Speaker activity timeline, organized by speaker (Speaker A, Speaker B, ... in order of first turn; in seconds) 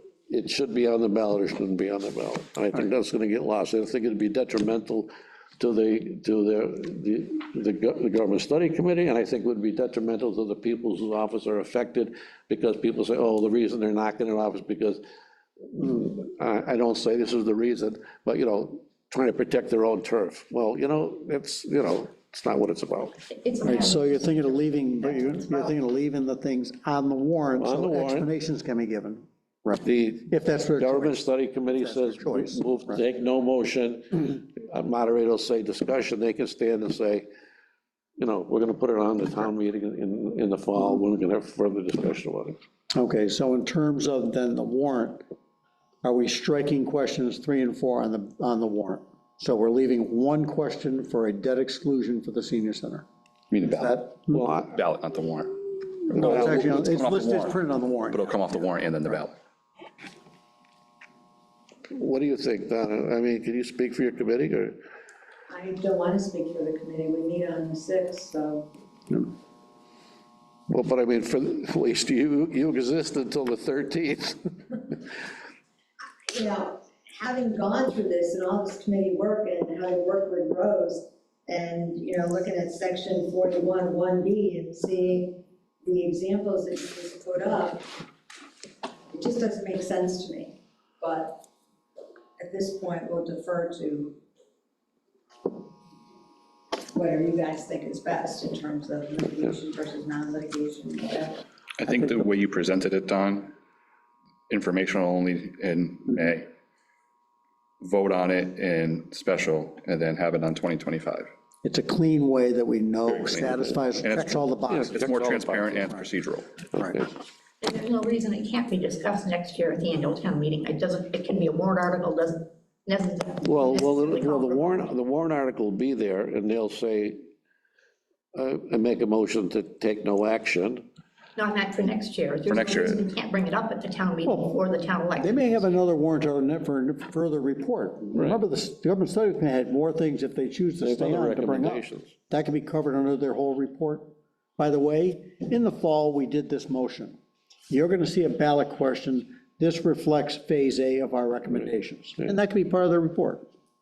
Speaker A: 0.3-15.0, 15.7-23.2, 27.6-28.3, 29.8-37.3, 38.2-42.6, 54.3-54.8, 61.9-64.8, 70.7-74.4, 114.7-115.9, 123.4-127.3, 128.3-130.8, 140.8-142.1
Speaker B: 23.3-24.6, 117.6-124.8, 131.4-135.6
Speaker C: 23.6-33.0, 42.9-45.2, 46.0-53.1, 53.8-54.5, 56.1-58.2, 111.6-115.0, 134.2-134.6, 135.2-147.2, 147.7-153.4
Speaker D: 53.5-54.0, 54.7-59.4, 101.8-103.5, 104.5-106.5, 107.8-111.3, 113.1-116.5, 132.5-133.0
Speaker E: 65.5-68.7, 76.3-87.9, 89.1-91.4, 92.4-94.2, 96.9-101.4